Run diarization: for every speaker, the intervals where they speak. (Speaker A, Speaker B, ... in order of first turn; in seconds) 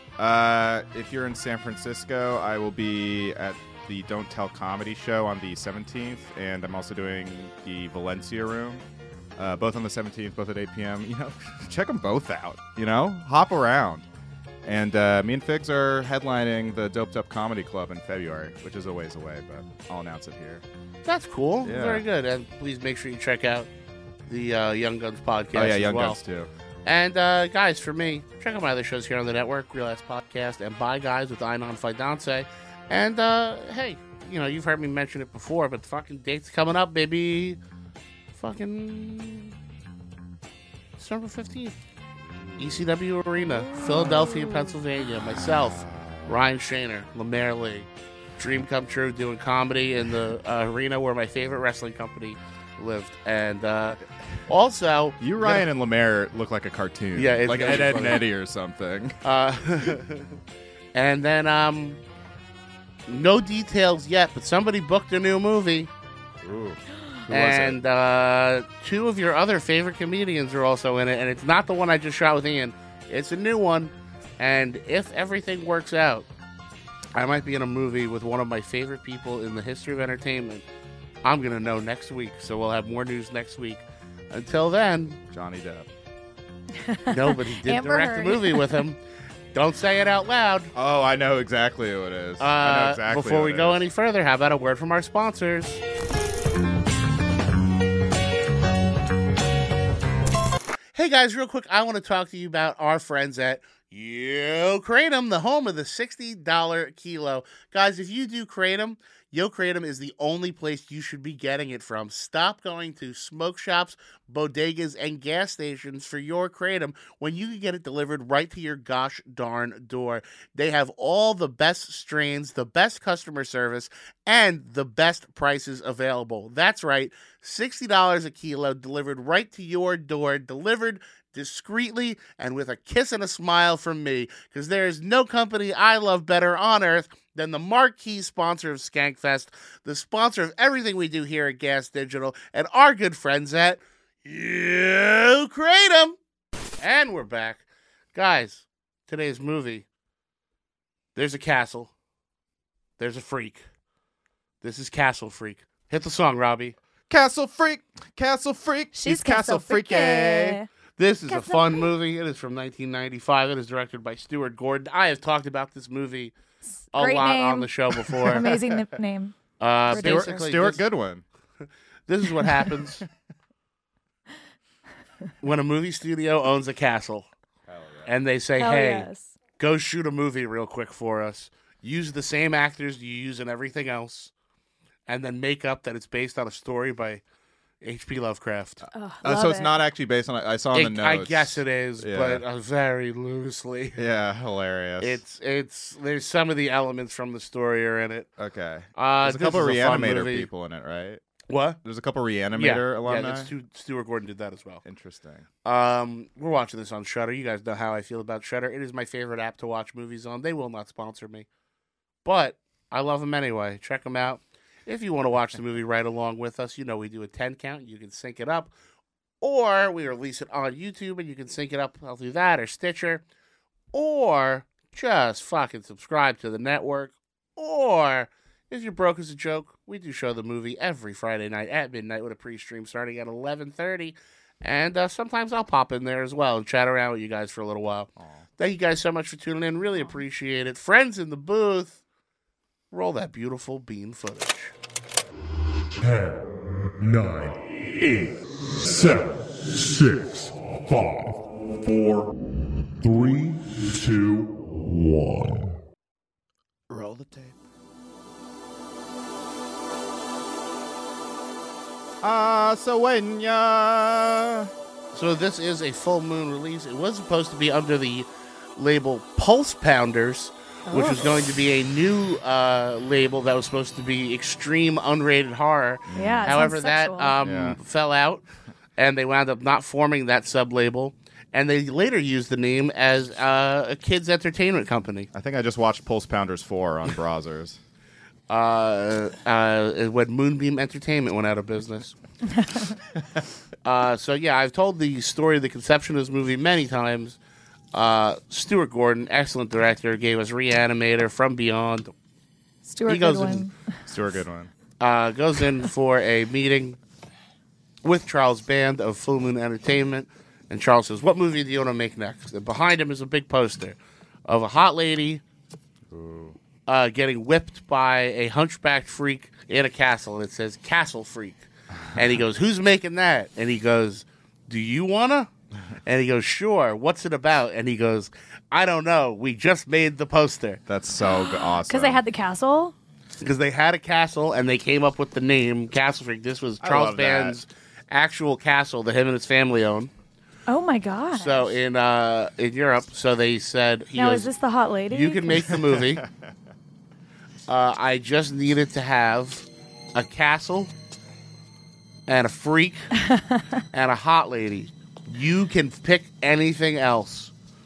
Speaker A: 0.2-8.8, 9.4-14.1, 14.7-20.6, 21.6-22.1, 25.5-26.5, 42.2-42.9, 43.8-44.2, 45.4-46.4, 55.2-59.2, 66.4-67.8, 85.3-85.9, 90.8-93.8, 157.1-160.6, 169.9-171.2, 177.7-178.1, 189.2-192.4, 194.0-195.2, 198.4-201.2, 201.8-203.5, 204.8-205.5, 238.2-238.5, 256.9-257.6, 262.2-264.7, 276.1-276.6, 277.4-277.8, 285.3-287.8, 304.1-304.7, 316.1-316.6, 330.9-332.2, 336.8-337.6, 345.7-346.5
Speaker B: 21.1-23.7, 24.3-26.2, 26.9-37.6, 38.4-39.6, 41.0-41.8, 42.6-55.7, 57.2-58.2, 59.2-60.4, 60.9-62.0, 63.1-65.9, 67.3-76.3, 77.2-80.7, 81.2-85.2, 87.1-89.0, 89.5-90.7, 92.4-95.8, 101.0-146.2, 146.8-147.6, 148.1-149.9, 151.2-151.9, 153.0-153.7, 154.6-156.8, 161.0-166.3, 166.9-168.5, 169.6-170.8, 172.1-173.1, 175.4-177.3, 178.1-179.1, 179.6-184.3, 185.1-187.2, 187.8-188.8, 190.7-194.0, 195.0-198.3, 199.0-200.5, 201.5-201.8, 202.6-204.8, 205.7-211.5, 212.2-218.7, 219.4-223.2, 223.9-242.0, 242.9-244.7, 265.1-278.4, 279.0-285.3, 288.5-292.2, 293.9-297.4, 297.9-302.1, 303.1-303.7, 305.0-307.0, 308.0-315.4, 316.9-325.5, 326.1-330.8, 333.4-340.1, 341.3-344.5, 345.1-346.2, 347.7-350.9, 352.3-353.1, 353.9-357.5
Speaker C: 44.0-44.6, 86.8-88.8, 158.9-160.7, 161.3-161.9, 166.7-170.5, 178.6-179.3, 188.9-189.8, 270.9-271.4, 276.1-277.4, 292.6-292.9, 302.9-303.8, 331.2-332.9, 340.7-341.7, 344.2-345.7, 353.2-353.7
Speaker D: 246.0-248.3, 248.9-252.3, 253.0-255.8